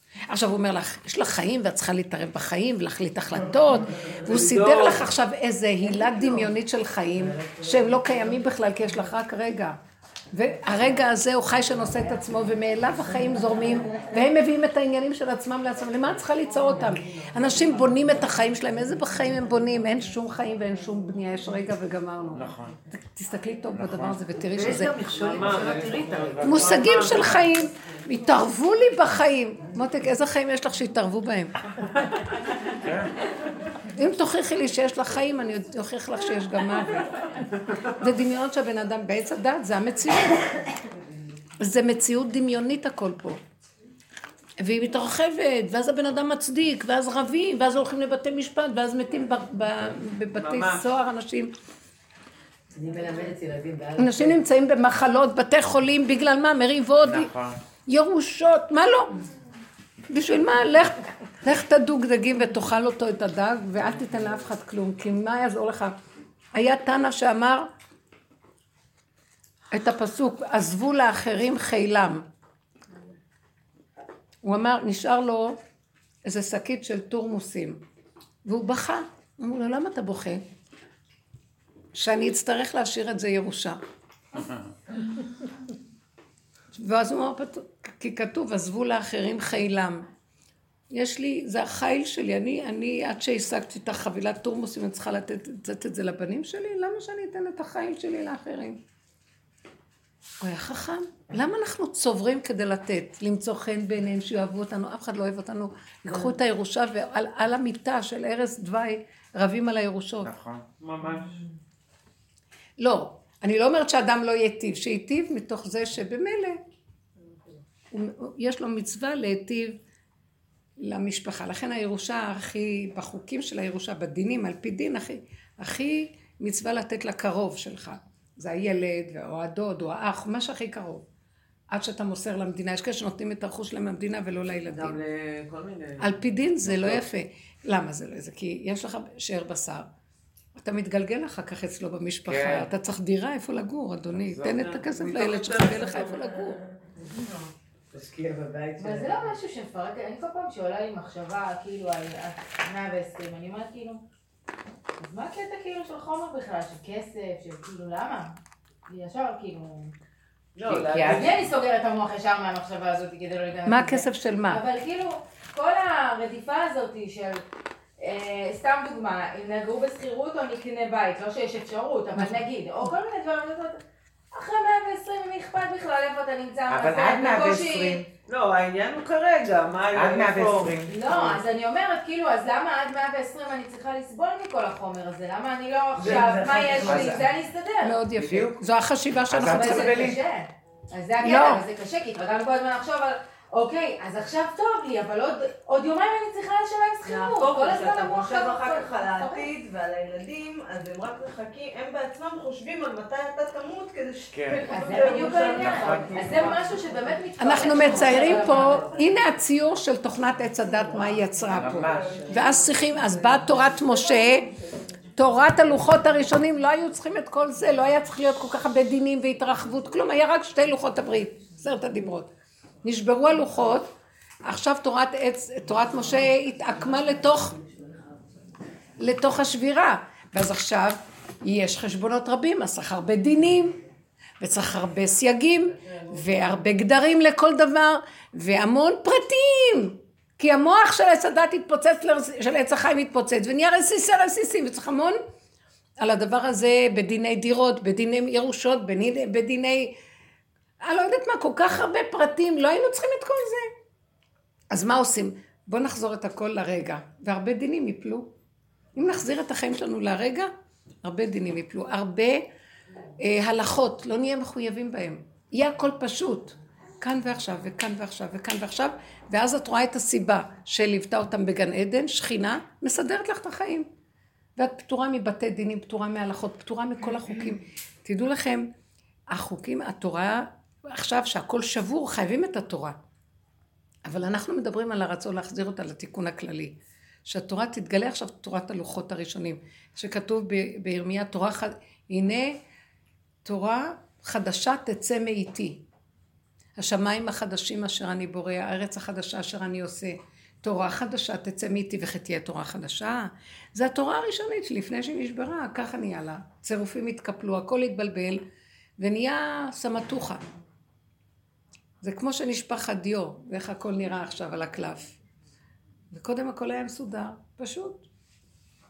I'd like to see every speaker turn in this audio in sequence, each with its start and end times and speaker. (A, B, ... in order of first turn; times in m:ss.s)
0:00.3-0:09.8 A
0:04.3-0:05.1 B
0:05.9-0:06.5 C
0:07.2-0:08.4 C
0:10.3-0:25.0 A
0:16.6-0:18.0 C
0:22.3-0:22.8 D
0:23.7-0:24.2 D
0:24.5-0:27.0 C
0:24.6-0:27.5 B
0:25.2-0:27.2 D
0:26.4-0:31.6 A
0:32.7-0:33.1 D
0:33.9-0:40.5 A
0:41.6-0:43.4 A
0:44.6-0:51.5 A
0:50.3-0:50.8 B
0:52.7-0:54.4 C
0:54.0-0:57.3 A
0:57.0-0:57.6 D
0:57.9-0:59.2 A
1:00.1-1:06.0 A
1:06.5-1:07.7 A
1:09.7-1:12.2 A
1:14.4-1:15.6 A
1:16.2-1:17.8 A
1:18.4-1:20.4 A
1:21.9-1:23.8 A
1:26.7-1:30.1 A
1:30.9-1:38.8 A
1:40.4-1:50.3 A
1:50.2-1:50.7 D
1:50.8-1:51.4 B
1:52.8-1:56.6 A
1:57.9-1:59.8 A
2:00.8-2:11.0 A
2:11.7-2:15.0 A
2:14.7-2:16.1 B
2:16.0-2:19.9 A
2:16.7-2:17.0 B
2:20.6-2:26.6 A
2:22.2-2:22.7 D
2:24.1-2:24.7 D
2:24.4-2:26.4 B
2:27.0-2:27.3 C
2:27.9-2:29.3 C
2:28.8-2:34.0 E
2:35.0-2:38.3 E
2:38.9-2:39.9 E
2:40.6-2:41.4 C
2:40.6-2:41.3 D
2:41.0-2:47.4 E
2:43.6-2:44.6 A
2:48.0-2:53.8 E
2:52.2-2:52.4 A
2:54.3-2:58.0 E
2:56.7-2:58.1 D
2:58.3-3:01.4 B
2:59.9-3:01.0 D
3:00.9-3:07.9 E
3:05.9-3:07.3 C
3:06.8-3:07.3 D
3:07.8-3:10.0 A
3:08.2-3:08.6 D
3:09.3-3:10.2 D
3:09.4-3:19.5 E
3:11.2-3:11.6 A
3:17.1-3:26.6 F
3:17.5-3:18.9 C
3:24.3-3:26.3 D
3:24.7-3:28.9 E
3:25.0-3:26.5 B
3:27.4-3:34.5 A
3:27.9-3:29.0 C
3:31.5-3:32.3 D
3:31.8-3:32.5 B
3:35.1-3:42.3 A
3:42.8-3:43.9 A
3:44.4-3:47.6 A
3:47.6-3:47.8 C
3:49.0-3:53.8 A
3:54.4-4:05.2 A
4:06.0-4:09.9 A
4:10.8-4:13.7 A
4:14.7-4:18.3 A
4:18.9-4:20.5 A
4:21.0-4:22.4 A
4:23.2-4:33.9 A
4:34.6-4:38.7 A
4:39.3-4:43.0 A
4:44.0-4:52.6 A
4:53.4-4:55.8 A
4:56.8-5:08.4 A
5:09.0-5:10.4 A
5:12.0-5:15.2 A
5:16.1-5:18.0 A